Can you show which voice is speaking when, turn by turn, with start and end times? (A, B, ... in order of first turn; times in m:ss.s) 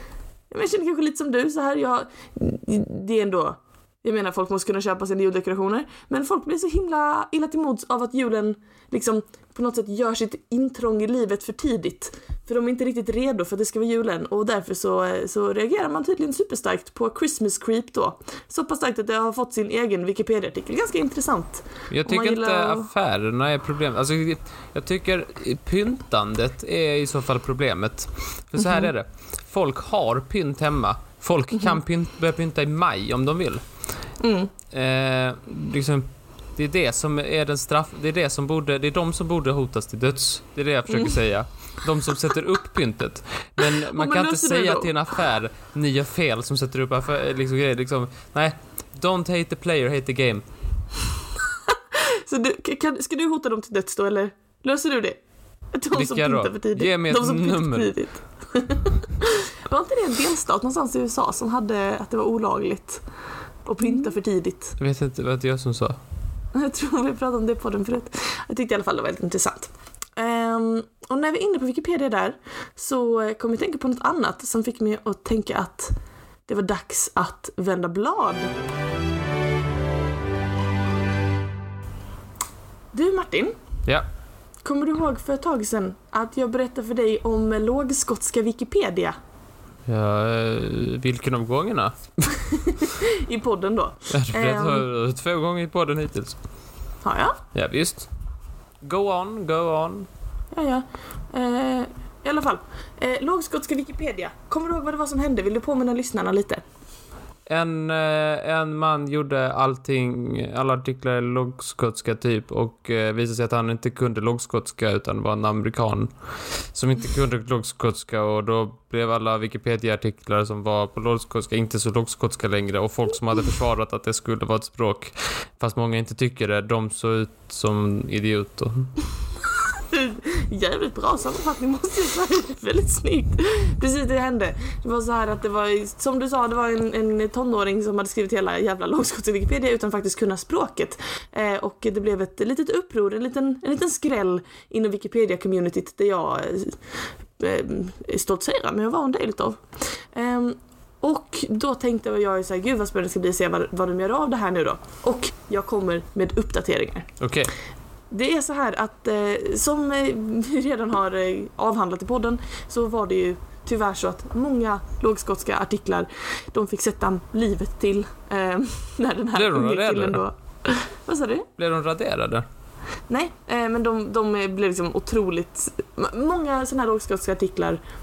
0:00.5-0:22.9 A
0:21.9-0:34.0 B
0:28.6-0:28.9 A
0:34.2-0:34.5 A
0:34.7-0:50.5 B
0:40.9-0:41.2 A
0:43.8-0:44.9 A
0:51.9-0:55.2 A
0:55.7-1:03.0 A
0:55.9-0:57.9 B
1:03.6-1:04.8 A
1:04.8-1:06.0 B
1:06.5-1:15.9 A
1:16.5-1:18.5 A
1:22.9-1:23.6 A
1:24.6-1:29.2 A
1:29.9-1:32.4 B
1:32.6-1:34.8 A
1:34.1-1:36.4 B
1:37.0-1:37.4 A
1:37.5-1:38.1 B
1:38.8-1:40.1 B
1:40.5-1:46.6 A
1:47.5-2:08.9 B
2:09.9-2:26.8 A
2:27.4-2:37.1 A
2:37.2-2:37.5 B
2:38.1-2:51.5 A
2:49.4-2:50.2 B
2:51.6-2:52.4 B
2:53.1-2:57.8 A